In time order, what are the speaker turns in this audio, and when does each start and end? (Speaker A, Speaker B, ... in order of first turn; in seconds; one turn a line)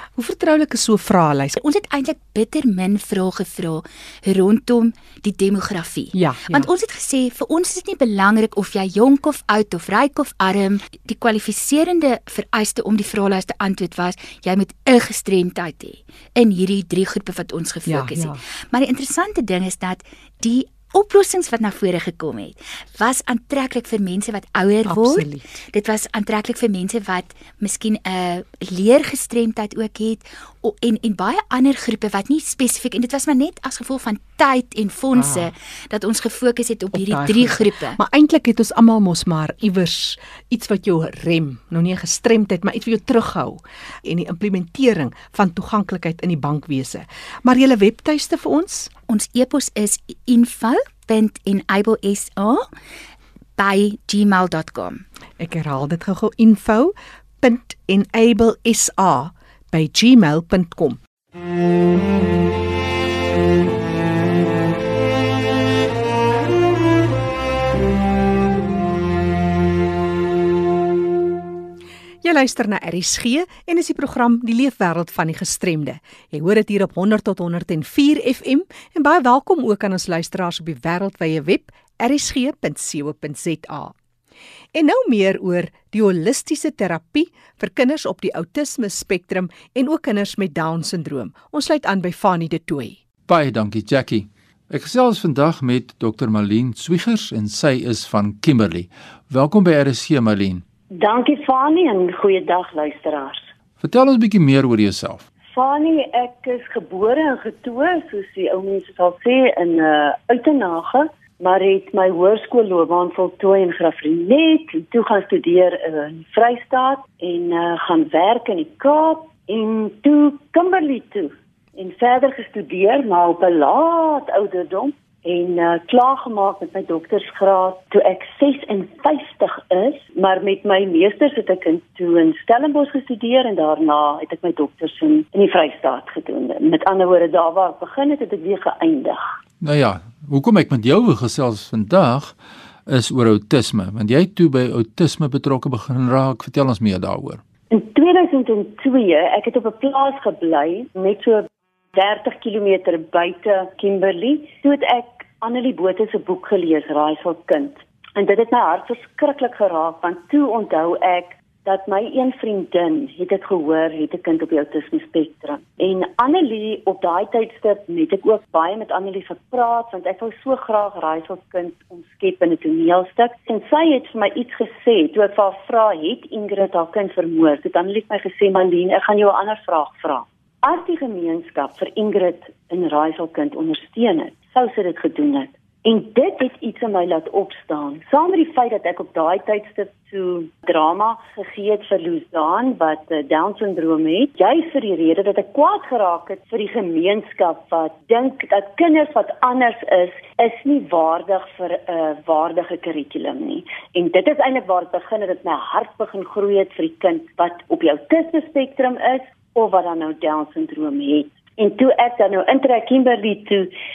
Speaker A: 0.2-1.6
Speaker B: 1.6-38.0
Speaker A: 6.1-6.7
Speaker A: 17.9-18.4
Speaker A: 24.9-25.5
Speaker A: 35.1-35.5
Speaker A: 36.9-48.9
Speaker B: 49.1-52.7
Speaker B: 53.6-55.0
Speaker A: 55.4-61.0
Speaker A: 72.2-83.9
Speaker A: 84.7-93.0
Speaker C: 93.3-100.6
Speaker D: 100.9-103.5
Speaker C: 103.8-105.2
Speaker D: 105.5-139.2
Speaker C: 139.6-142.3
Speaker C: 142.9-147.4
Speaker D: 147.7-213.7